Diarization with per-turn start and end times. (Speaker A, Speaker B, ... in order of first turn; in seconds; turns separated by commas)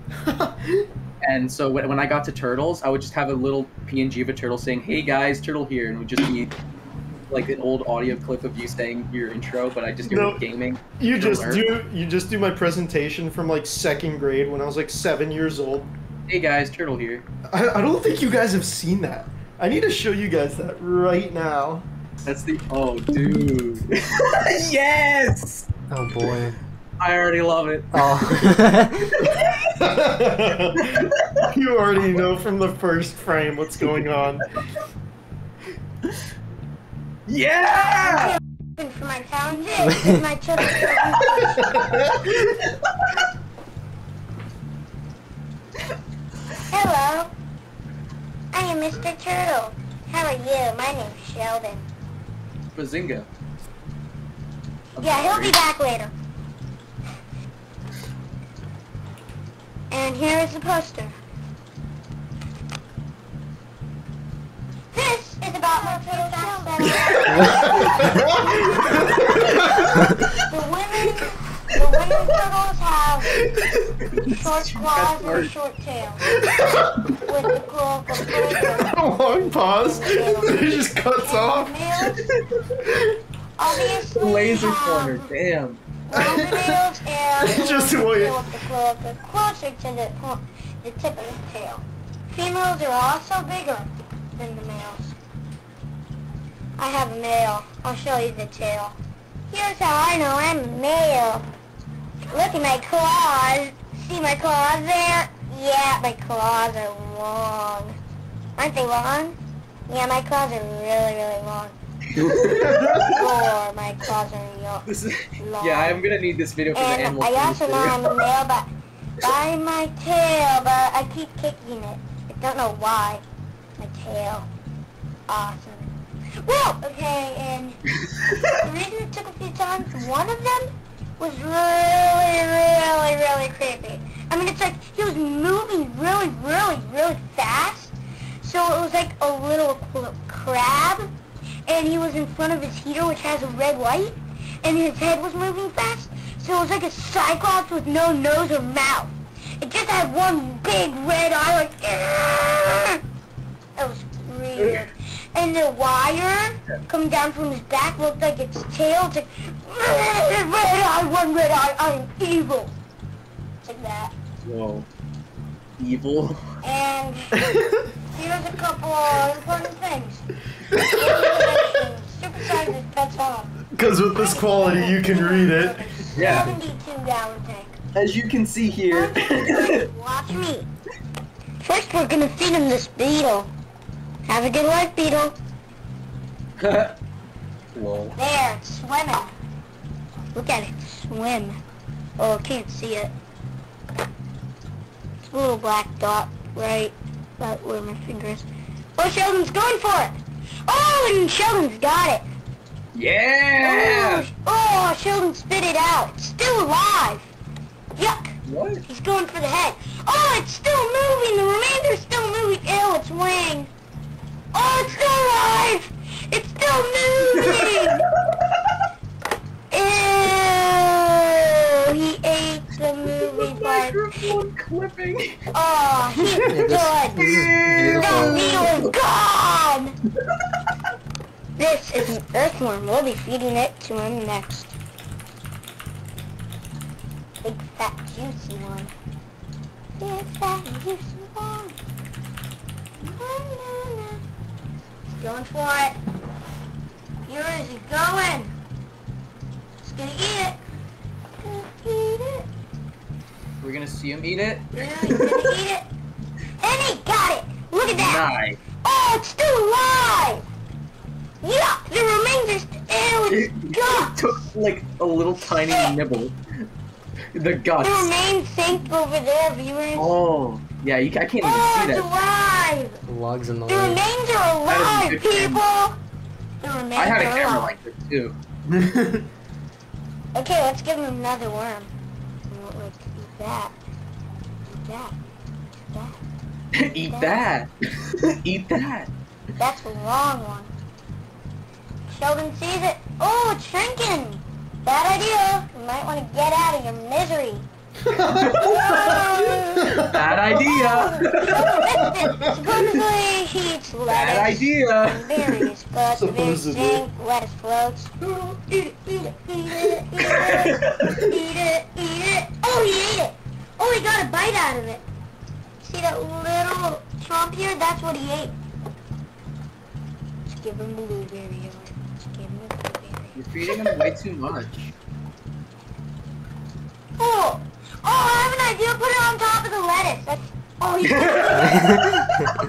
Speaker A: 0.2-0.9, Speaker B: 1.2-6.5, Speaker B: 7.3-11.6, Speaker A: 10.1-10.4, Speaker A: 11.0-15.9, Speaker B: 16.3-17.2, Speaker A: 17.5-21.9, Speaker B: 22.2-25.7, Speaker C: 25.9-26.6, Speaker B: 27.0-29.9, Speaker C: 27.9-29.3, Speaker A: 29.8-34.5, Speaker B: 30.8-31.5, Speaker B: 37.3-38.4, Speaker D: 38.0-41.8, Speaker B: 40.6-41.2, Speaker A: 41.5-42.3, Speaker B: 42.6-43.2, Speaker D: 46.7-47.3, Speaker D: 48.5-51.8, Speaker B: 52.7-53.3, Speaker B: 54.9-55.6, Speaker D: 55.0-56.1, Speaker D: 59.9-61.1, Speaker D: 64.9-73.5, Speaker A: 66.8-70.1, Speaker B: 68.1-69.7, Speaker B: 74.0-75.5, Speaker D: 74.3-76.2, Speaker A: 76.5-77.1, Speaker B: 76.5-76.8, Speaker D: 77.2-82.2, Speaker B: 78.2-78.8, Speaker A: 78.7-81.7, Speaker B: 82.0-82.8, Speaker A: 82.8-83.2, Speaker D: 83.6-85.3, Speaker B: 84.0-85.8, Speaker D: 86.1-95.1, Speaker A: 86.1-86.8, Speaker A: 87.4-88.4, Speaker D: 96.8-99.0, Speaker D: 99.5-101.4, Speaker D: 102.3-107.9, Speaker D: 108.6-109.4, Speaker D: 109.9-111.7, Speaker B: 112.1-113.1, Speaker A: 112.5-113.2, Speaker D: 113.0-114.8, Speaker B: 114.8-118.2, Speaker D: 115.4-116.0, Speaker D: 116.7-118.7, Speaker D: 119.2-123.2, Speaker D: 123.8-124.5, Speaker D: 125.3-127.8, Speaker B: 128.1-128.5, Speaker D: 128.5-141.1, Speaker D: 141.7-153.0, Speaker D: 153.8-162.7, Speaker B: 154.6-154.9, Speaker D: 163.6-164.1, Speaker B: 164.4-164.9, Speaker B: 165.8-166.4, Speaker D: 166.6-167.4, Speaker A: 167.4-167.9, Speaker D: 168.1-170.2, Speaker A: 170.7-171.7, Speaker D: 170.8-173.6, Speaker A: 173.7-176.0, Speaker D: 174.2-177.8, Speaker B: 176.1-176.5, Speaker B: 177.9-179.8, Speaker D: 178.9-180.7, Speaker D: 181.6-183.5, Speaker D: 184.2-185.3, Speaker B: 186.6-186.9, Speaker B: 187.7-188.2, Speaker D: 188.2-189.3, Speaker D: 190.3-191.6, Speaker D: 192.2-193.1, Speaker D: 195.2-202.2, Speaker B: 202.9-204.3, Speaker D: 203.6-207.3, Speaker D: 207.9-208.3, Speaker B: 208.5-208.8, Speaker D: 208.9-213.7, Speaker D: 214.5-218.0, Speaker B: 217.3-218.6, Speaker D: 219.7-224.0, Speaker B: 223.1-225.4, Speaker D: 225.5-229.9, Speaker A: 226.2-226.5, Speaker C: 226.5-228.7, Speaker B: 227.2-228.9, Speaker D: 231.6-234.7, Speaker D: 237.4-238.9, Speaker D: 240.0-241.8, Speaker D: 243.0-244.2, Speaker D: 245.1-245.9, Speaker D: 247.2-248.5, Speaker D: 249.8-250.6, Speaker D: 251.4-252.4, Speaker B: 253.6-255.6, Speaker D: 254.7-255.8, Speaker D: 256.6-258.2, Speaker B: 257.8-258.6, Speaker D: 258.8-260.4, Speaker D: 261.4-264.3, Speaker B: 263.3-266.4, Speaker D: 265.5-265.9, Speaker B: 267.3-268.1, Speaker D: 267.8-270.2, Speaker B: 269.9-272.1, Speaker D: 271.4-273.0, Speaker C: 273.1-274.0, Speaker D: 273.7-276.0, Speaker B: 274.7-275.6, Speaker D: 276.6-277.7, Speaker B: 276.9-278.3, Speaker A: 278.7-279.2, Speaker D: 280.3-281.9, Speaker D: 282.5-283.7, Speaker D: 284.7-285.1, Speaker B: 286.7-289.1, Speaker D: 286.8-287.4, Speaker D: 289.6-290.7, Speaker D: 292.1-297.6, Speaker A: 298.0-300.7, Speaker B: 298.3-301.8, Speaker D: 298.5-315.0, Speaker A: 301.5-302.8, Speaker B: 302.7-303.0, Speaker B: 304.1-305.7, Speaker A: 306.0-307.1, Speaker B: 310.2-311.1, Speaker D: 315.8-318.5, Speaker D: 320.5-324.1, Speaker B: 323.4-324.9, Speaker D: 327.2-332.1, Speaker B: 331.0-332.0, Speaker C: 331.6-332.5